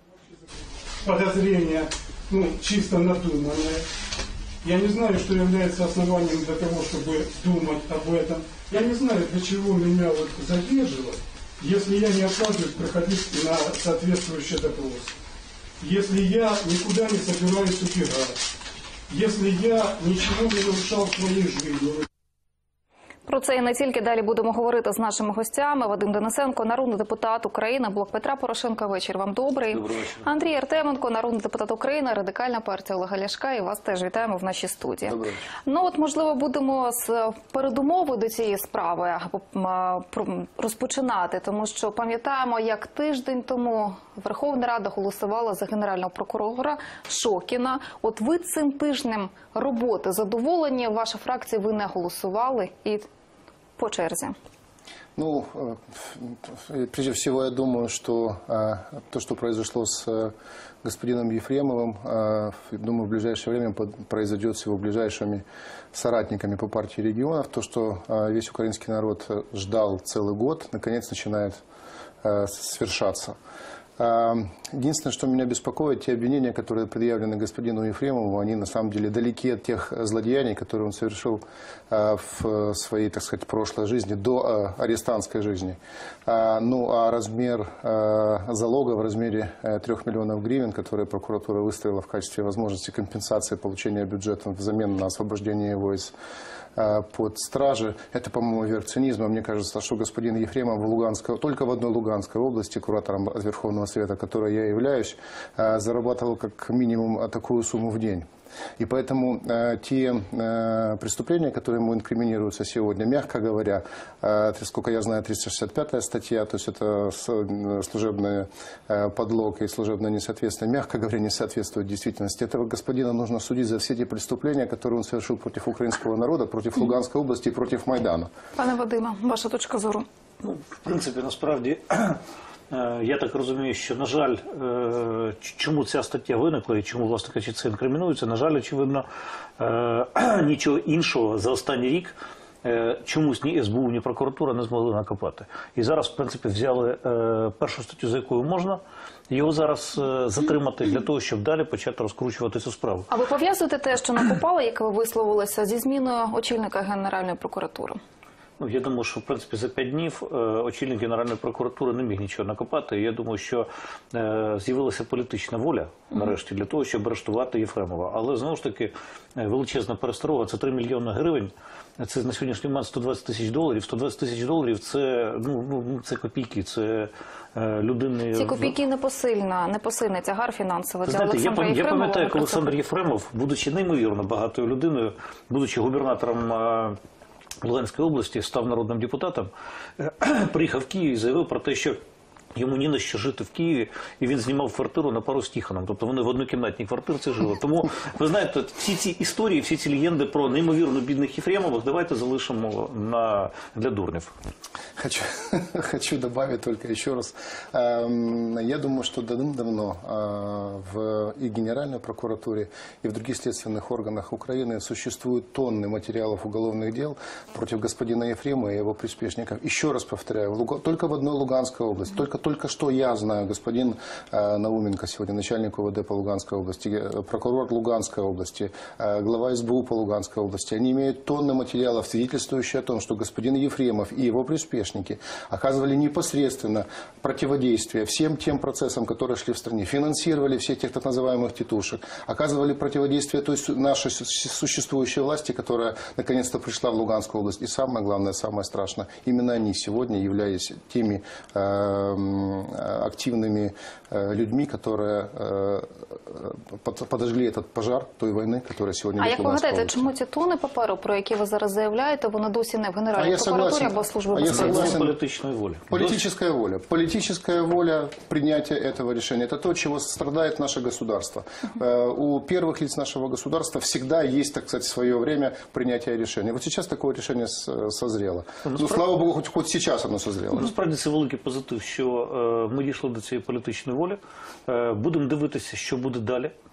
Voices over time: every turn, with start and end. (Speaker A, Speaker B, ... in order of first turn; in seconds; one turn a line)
Speaker A: 1.0-3.9
Speaker A: 4.6-15.2
Speaker A: 15.8-18.4
Speaker A: 19.1-22.1
Speaker B: 23.3-53.0
Speaker C: 29.7-30.2
Speaker D: 35.1-35.4
Speaker B: 53.8-54.4
Speaker D: 55.2-71.6
Speaker D: 72.2-73.3
Speaker D: 74.0-96.1
Speaker D: 96.8-128.3
Speaker B: 128.6-130.1
Speaker C: 130.4-139.1
Speaker C: 139.6-153.1
Speaker B: 153.1-158.0
Speaker C: 158.6-178.8
Speaker B: 178.3-182.7
Speaker C: 181.1-187.0
Speaker C: 187.6-192.0
Speaker C: 192.6-204.3
Speaker D: 205.0-260.1
Speaker B: 259.2-265.0
Speaker D: 263.1-265.1
Speaker C: 264.5-266.2
Speaker D: 265.9-280.7
Speaker C: 278.7-279.0
Speaker C: 280.5-286.5